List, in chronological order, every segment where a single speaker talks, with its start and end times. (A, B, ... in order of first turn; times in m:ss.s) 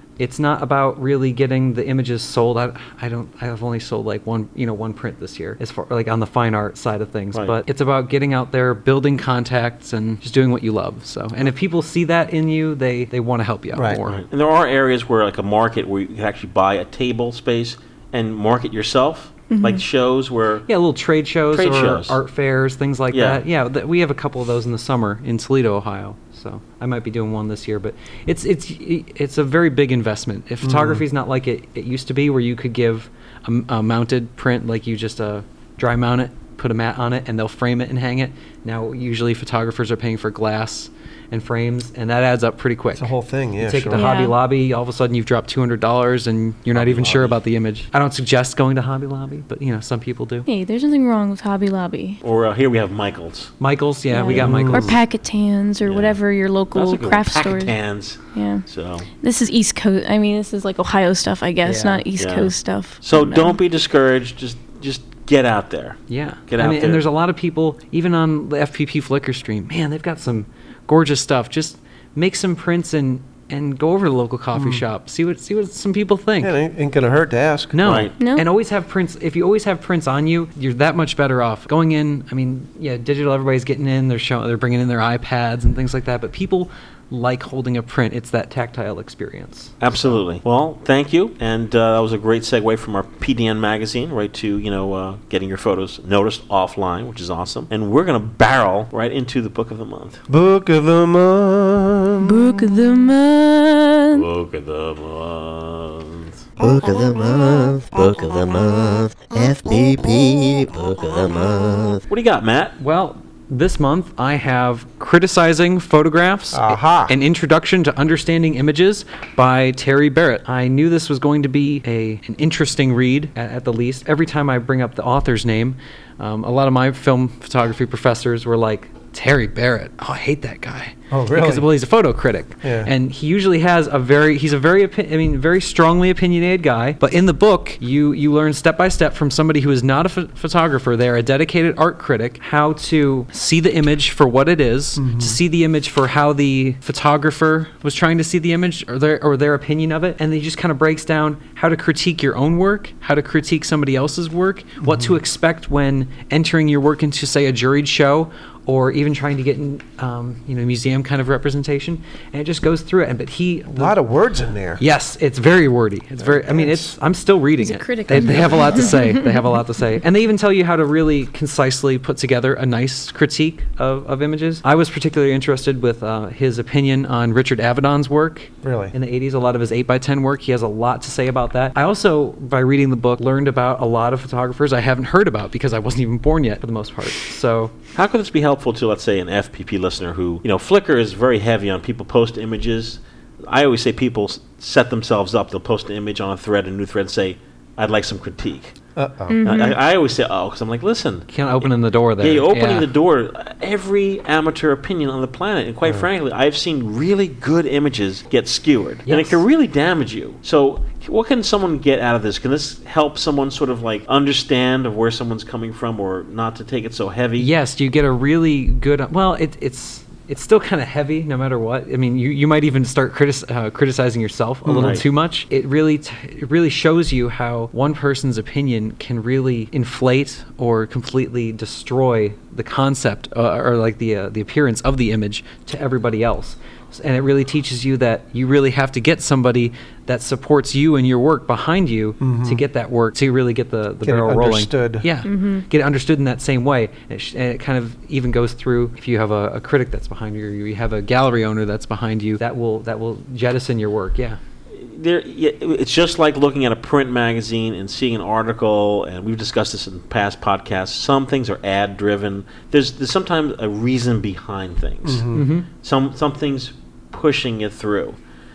0:00.2-0:14.2 A
0:07.3-0:07.6 B
0:13.7-0:14.0 C
0:14.0-0:20.6 B
0:19.5-0:19.8 D
0:20.7-0:50.4 A
0:21.5-0:22.2 B
0:23.1-0:23.4 B
0:30.6-0:31.0 C
0:43.0-0:44.1 C
0:43.9-0:44.4 D
0:46.7-0:47.4 B
0:50.5-0:52.2 D
0:52.2-0:53.5 B
0:53.6-0:55.0 A
0:54.1-0:58.6 D
0:54.3-0:55.0 C
0:55.8-0:56.2 B
0:56.7-0:59.1 B
0:59.2-1:03.6 D
1:01.6-1:02.0 A
1:02.2-1:07.0 B
1:06.1-1:16.5 A
1:14.6-1:14.8 C
1:16.4-1:17.8 C
1:17.7-1:30.2 A
1:17.8-1:18.1 B
1:18.2-1:18.4 D
1:29.8-1:40.2 B
1:40.3-1:42.6 C
1:42.2-1:44.2 D
1:44.1-1:46.4 B
1:46.6-1:52.0 E
1:52.1-1:52.7 B
1:52.8-2:44.0 A
1:56.5-1:57.1 C
2:11.1-2:11.7 C
2:12.6-2:12.9 C
2:25.0-2:25.4 C
2:34.8-2:35.2 C
2:43.7-2:44.8 C
2:44.8-3:07.7 A
2:46.2-2:46.9 C
2:47.6-2:49.4 D
2:48.2-2:48.4 C
2:58.6-2:58.9 C
3:08.0-3:18.7 B
3:19.0-3:19.4 C
3:19.3-3:19.8 D
3:19.4-3:37.5 B
3:21.3-3:22.9 A
3:29.0-3:29.4 A
3:37.4-4:14.4 A
3:44.6-3:45.0 C
3:44.7-3:45.0 B
4:02.2-4:02.6 C
4:04.0-4:05.0 C
4:05.2-4:05.6 D
4:14.7-4:28.2 B
4:25.0-4:25.4 C
4:25.3-4:25.7 A